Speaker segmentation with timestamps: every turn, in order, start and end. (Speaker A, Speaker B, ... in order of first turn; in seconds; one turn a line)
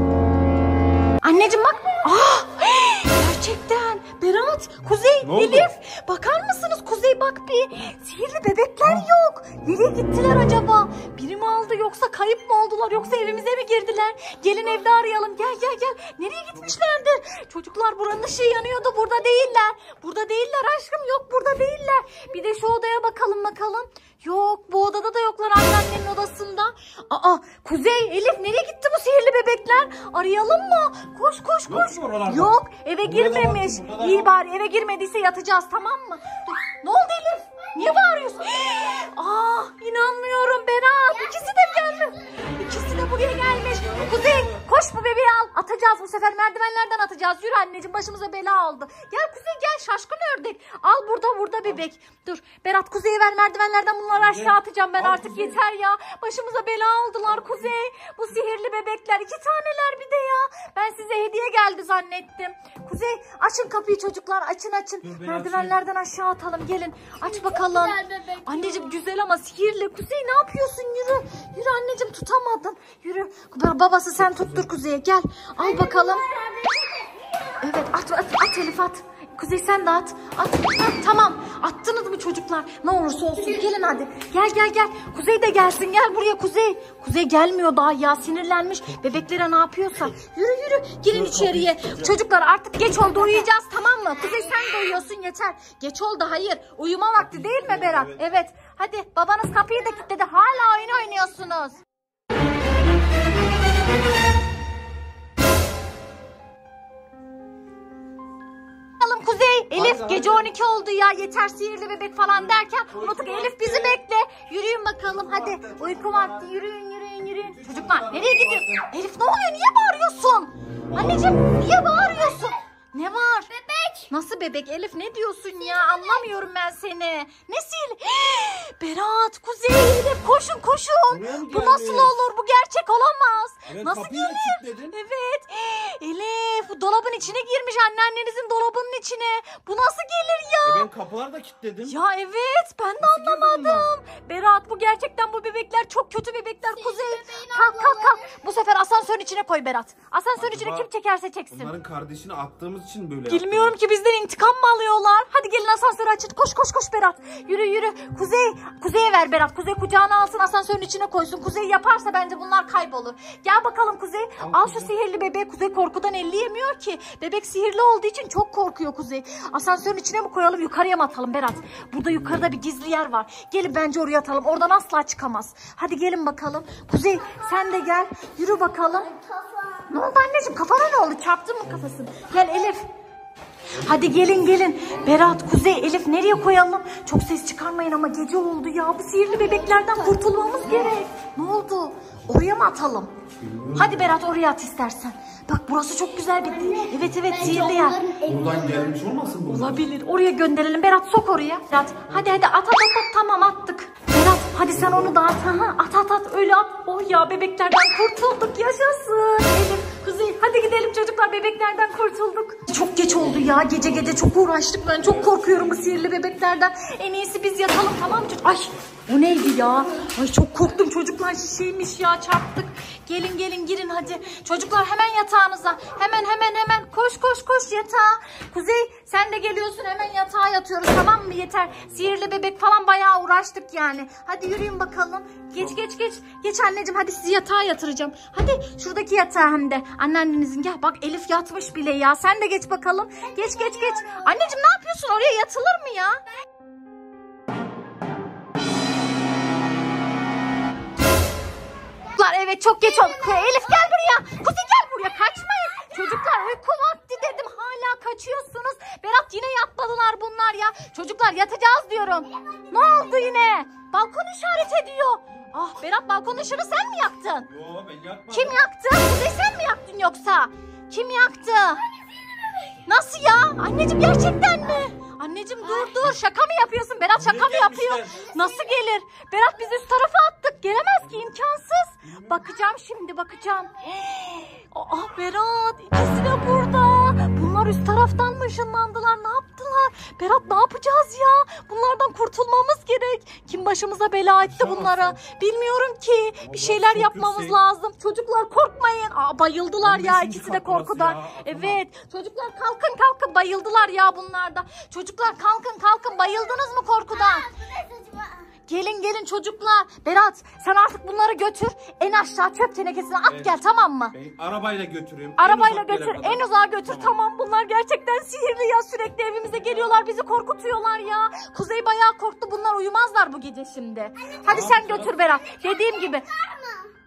Speaker A: 1.2-76.2
Speaker B: 5.2-5.7
Speaker B: 31.7-34.3
Speaker C: 41.1-42.5
Speaker B: 43.6-44.7
Speaker B: 54.1-55.6
Speaker B: 65.0-65.8
Speaker C: 67.2-69.0
Speaker C: 75.6-77.4
Speaker A: 77.6-101.8
Speaker C: 83.4-83.8
Speaker B: 91.1-92.1
Speaker C: 94.3-94.6
Speaker B: 97.2-98.2
Speaker A: 109.0-123.5
Speaker B: 109.8-110.5
Speaker B: 112.9-114.0
Speaker B: 115.1-116.5
Speaker B: 117.5-118.9
Speaker B: 120.9-121.3
Speaker C: 122.0-122.5
Speaker C: 123.5-124.1
Speaker A: 124.1-140.9
Speaker C: 125.6-126.3
Speaker B: 131.1-132.2
Speaker B: 133.7-135.0
Speaker B: 140.7-142.0
Speaker A: 141.8-151.7
Speaker B: 143.0-143.9
Speaker C: 146.8-148.3
Speaker B: 150.4-150.9
Speaker B: 151.5-153.8
Speaker A: 153.3-179.1
Speaker B: 164.4-164.9
Speaker C: 177.2-177.8
Speaker C: 179.0-179.9
Speaker A: 179.9-182.9
Speaker A: 183.8-193.1
Speaker C: 189.3-191.0
Speaker B: 193.4-194.1
Speaker A: 193.8-198.0
Speaker C: 196.4-199.0
Speaker B: 197.4-197.7
Speaker B: 198.2-199.8
Speaker A: 199.5-246.2
Speaker B: 204.8-205.1
Speaker B: 215.2-215.8
Speaker C: 243.2-244.5
Speaker A: 252.1-267.5
Speaker C: 252.8-254.1
Speaker C: 262.3-263.4
Speaker B: 267.5-268.6
Speaker A: 268.3-271.8
Speaker C: 271.9-272.8
Speaker A: 272.8-307.5
Speaker C: 275.6-276.0
Speaker B: 277.2-278.3
Speaker C: 278.0-278.8
Speaker B: 282.1-282.5
Speaker B: 294.4-295.2
Speaker B: 296.4-297.6
Speaker B: 299.8-301.9
Speaker C: 306.1-306.6
Speaker C: 307.1-308.5
Speaker A: 308.7-314.1
Speaker B: 313.3-313.6
Speaker B: 314.1-317.1
Speaker A: 315.4-326.3
Speaker C: 324.2-326.9
Speaker B: 324.5-325.2